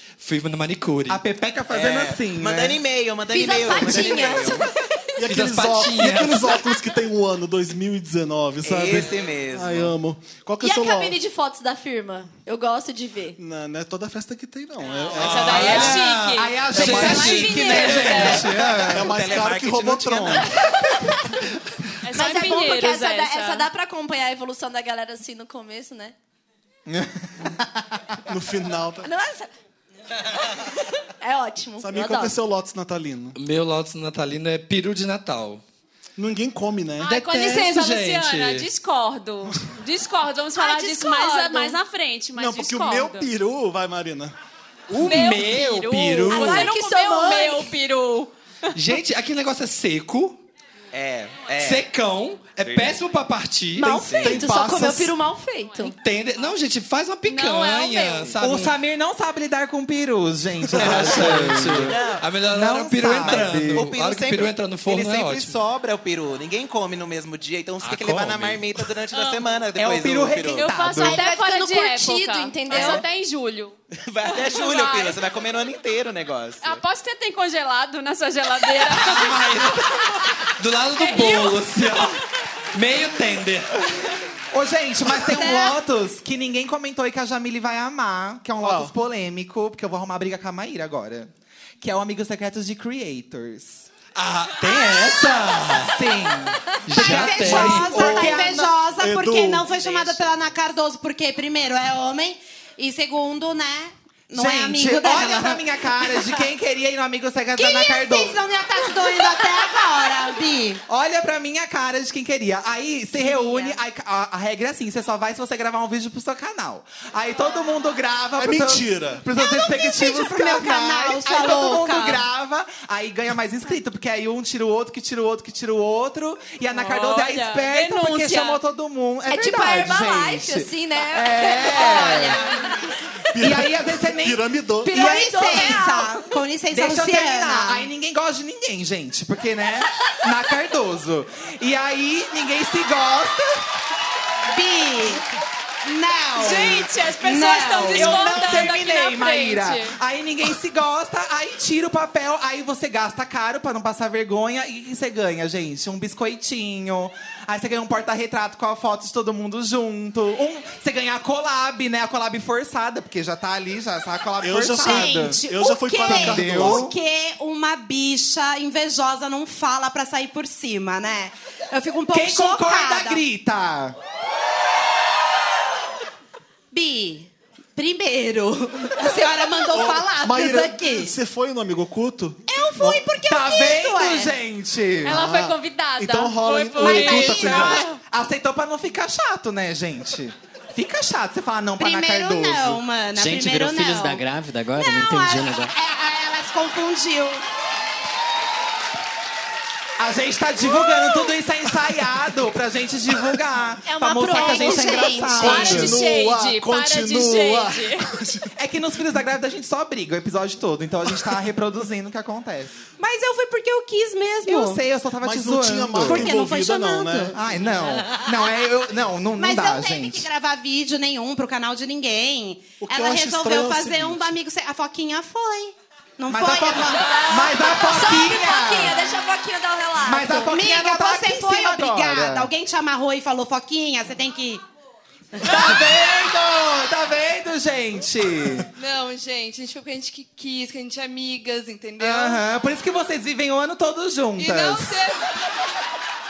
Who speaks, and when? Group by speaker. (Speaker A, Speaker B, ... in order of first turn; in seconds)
Speaker A: 0.2-1.2, 5.3-6.6, 15.2-18.5, 33.4-35.6, 37.0-38.7, 44.9-46.7, 48.7-50.4, 51.6-54.1, 56.0-58.7, 60.7-65.6, 67.8-68.8, 78.9-82.2, 82.7-83.7, 94.2-95.9, 96.8-98.0
Speaker B: 1.1-2.8, 15.6-19.1, 58.4-62.0, 62.5-63.8, 69.8-71.2, 84.5-91.3, 91.8-93.9, 94.8-95.1, 95.8-98.8, 104.3-108.4, 110.9-132.5, 133.4-136.1, 136.7-143.6, 147.2-165.4, 166.1-166.9, 172.1-173.9, 183.2-185.1, 188.0-192.8, 200.0-206.0, 208.6-212.8, 214.4-216.3, 217.3-220.3, 226.3-229.0, 230.0-232.5, 235.4-238.7, 242.0-245.0
Speaker C: 1.7-4.7, 8.6-9.9, 16.9-20.5, 50.9-51.9, 52.6-53.0, 54.0-54.5, 60.8-62.3, 63.1-70.7, 72.7-73.0, 74.1-76.8
Speaker D: 3.3-4.7, 10.6-13.4, 22.1-26.1, 29.0-29.5, 31.2-32.3, 40.6-41.8, 46.3-47.7, 53.8-55.9, 71.0-73.0, 129.3-132.4, 134.9-136.2, 227.0-230.5
Speaker E: 5.2-11.2, 13.4-15.9, 16.7-17.4, 18.1-20.6, 28.3-29.1, 31.8-33.4, 36.2-37.2, 42.4-44.4, 54.1-55.1, 88.6-89.0, 97.4-99.7, 118.4-119.3, 133.3-135.0, 164.4-166.9, 179.7-183.1, 185.1-187.9, 205.2-208.5, 215.2-217.6, 222.8-224.4
Speaker F: 14.9-18.4, 22.0-23.7, 37.0-43.3, 45.0-48.3, 55.7-56.0, 57.3-58.3, 69.1-69.5, 70.5-75.2, 76.6-80.0, 81.0-81.7, 126.7-128.6, 146.4-150.0, 185.1-187.9, 205.4-208.1
Speaker G: 85.2-85.8, 96.9-106.4, 107.6-110.8, 113.2-113.8, 119.4-122.3, 131.8-132.4, 134.9-137.9, 144.5-145.2, 145.8-146.9, 147.5-148.5, 164.8-173.2, 176.7-181.1, 182.5-184.3, 186.8-187.8, 191.8-194.2, 194.8-197.4, 203.8-205.7, 213.0-214.8, 216.0-217.3, 219.4-227.5, 230.4-234.6
Speaker H: 193.1-195.7
Speaker I: 238.7-242.4, 244.4-245.3